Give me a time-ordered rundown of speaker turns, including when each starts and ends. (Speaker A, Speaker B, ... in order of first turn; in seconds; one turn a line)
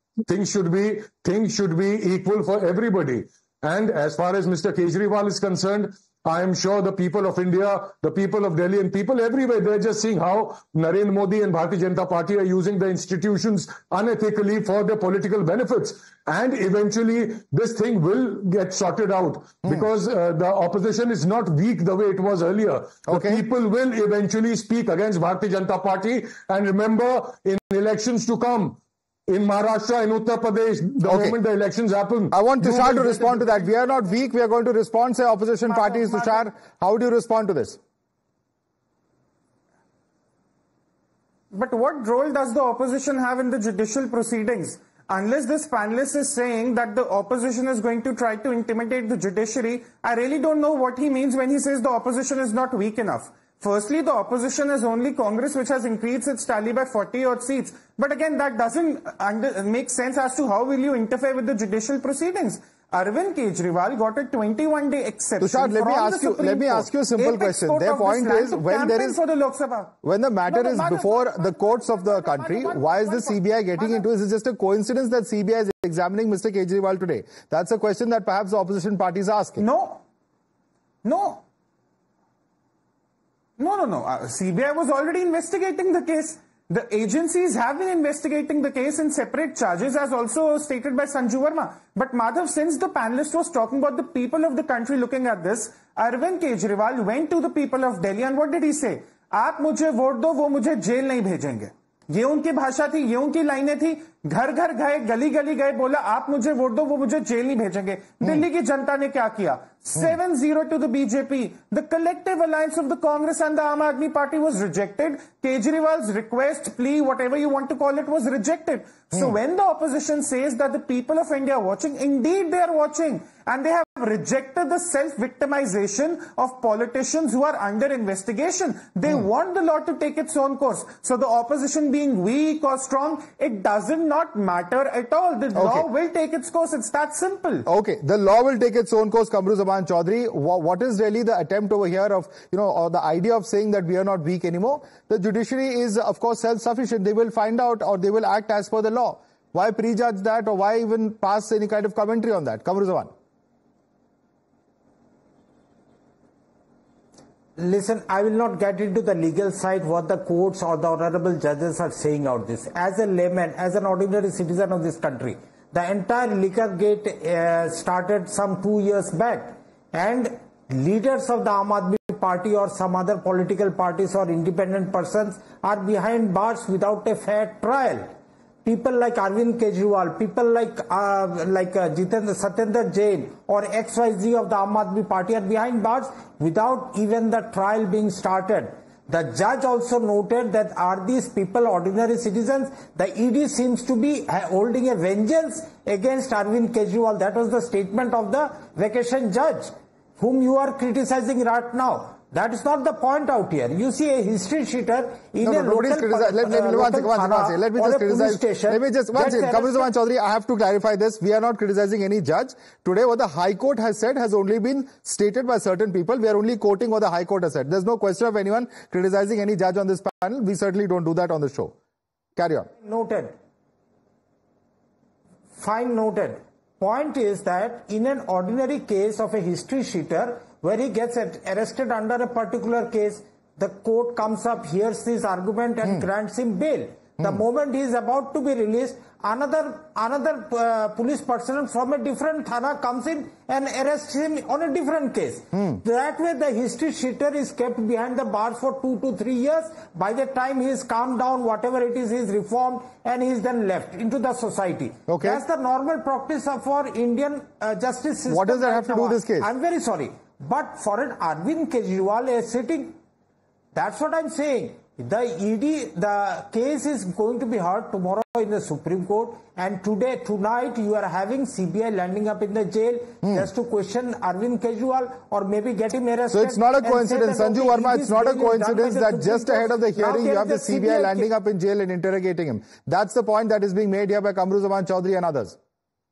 Speaker A: 0.3-33.3
Speaker B: 23.1-23.4
Speaker B: 31.0-31.4
Speaker B: 32.3-37.8
Speaker C: 35.6-36.5
Speaker C: 41.5-69.9
Speaker B: 65.4-69.2
Speaker B: 70.0-79.6
Speaker C: 70.5-74.0
Speaker C: 79.6-80.0
Speaker C: 81.0-81.4
Speaker C: 83.6-137.6
Speaker B: 135.5-135.9
Speaker B: 137.7-153.1
Speaker D: 157.6-178.1
Speaker D: 178.6-209.9
Speaker B: 205.4-221.7
Speaker B: 222.3-222.7
Speaker D: 222.8-223.3
Speaker D: 225.6-262.9
Speaker B: 245.5-245.8
Speaker B: 255.1-255.4
Speaker B: 258.3-259.5
Speaker D: 263.7-281.3
Speaker B: 273.2-273.5
Speaker B: 276.3-285.6